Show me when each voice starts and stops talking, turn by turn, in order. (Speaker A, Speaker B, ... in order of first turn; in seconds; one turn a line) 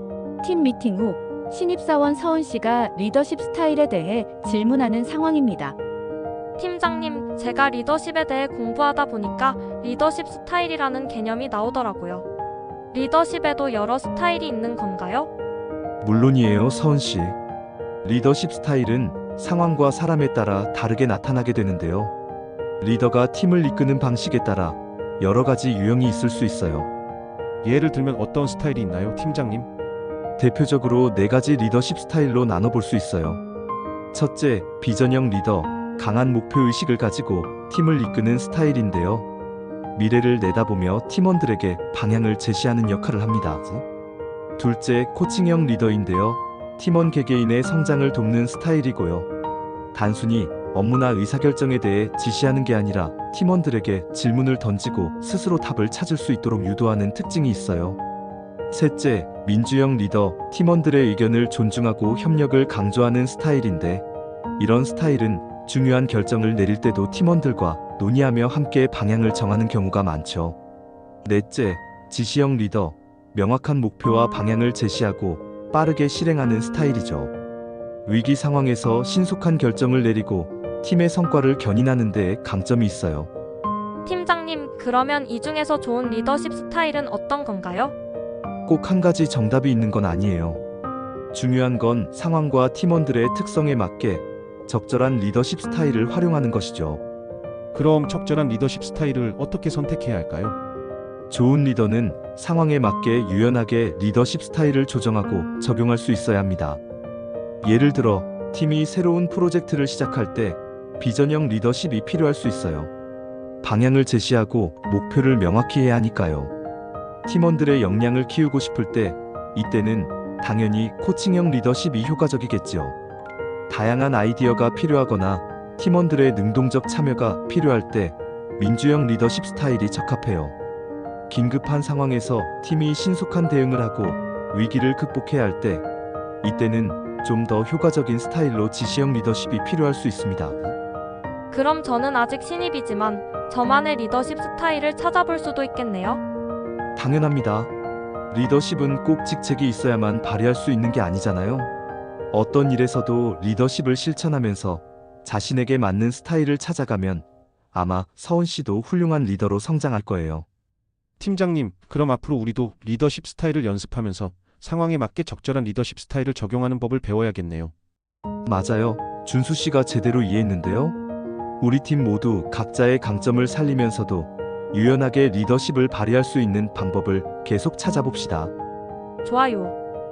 Speaker A: 0.4-5.8
Speaker B: 6.6-12.2
Speaker B: 12.9-15.3
Speaker C: 16.0-17.4
Speaker C: 18.0-22.1
Speaker C: 22.8-26.9
Speaker D: 27.6-29.7
Speaker C: 30.4-33.4
Speaker C: 34.1-39.3
Speaker C: 39.9-43.8
Speaker C: 44.6-49.3
Speaker C: 49.9-58.0
Speaker C: 58.7-64.0
Speaker C: 64.6-70.6
Speaker C: 71.2-77.3
Speaker C: 78.0-83.3
Speaker B: 84.0-87.9
Speaker C: 88.7-90.6
Speaker C: 91.3-97.0
Speaker D: 97.7-100.5
Speaker C: 101.3-106.8
Speaker C: 107.6-112.9
Speaker C: 113.6-116.5
Speaker C: 117.2-122.9
Speaker C: 123.7-130.5
Speaker C: 131.3-135.8
Speaker C: 136.4-140.7
Speaker B: 141.5-146.2
Speaker C: 146.9-147.7
Speaker C: 148.3-151.7
Speaker C: 152.3-160.4
Speaker D: 161.2-167.7
Speaker C: 168.5-171.0
Speaker C: 171.6-178.5
Speaker B: 179.2-179.7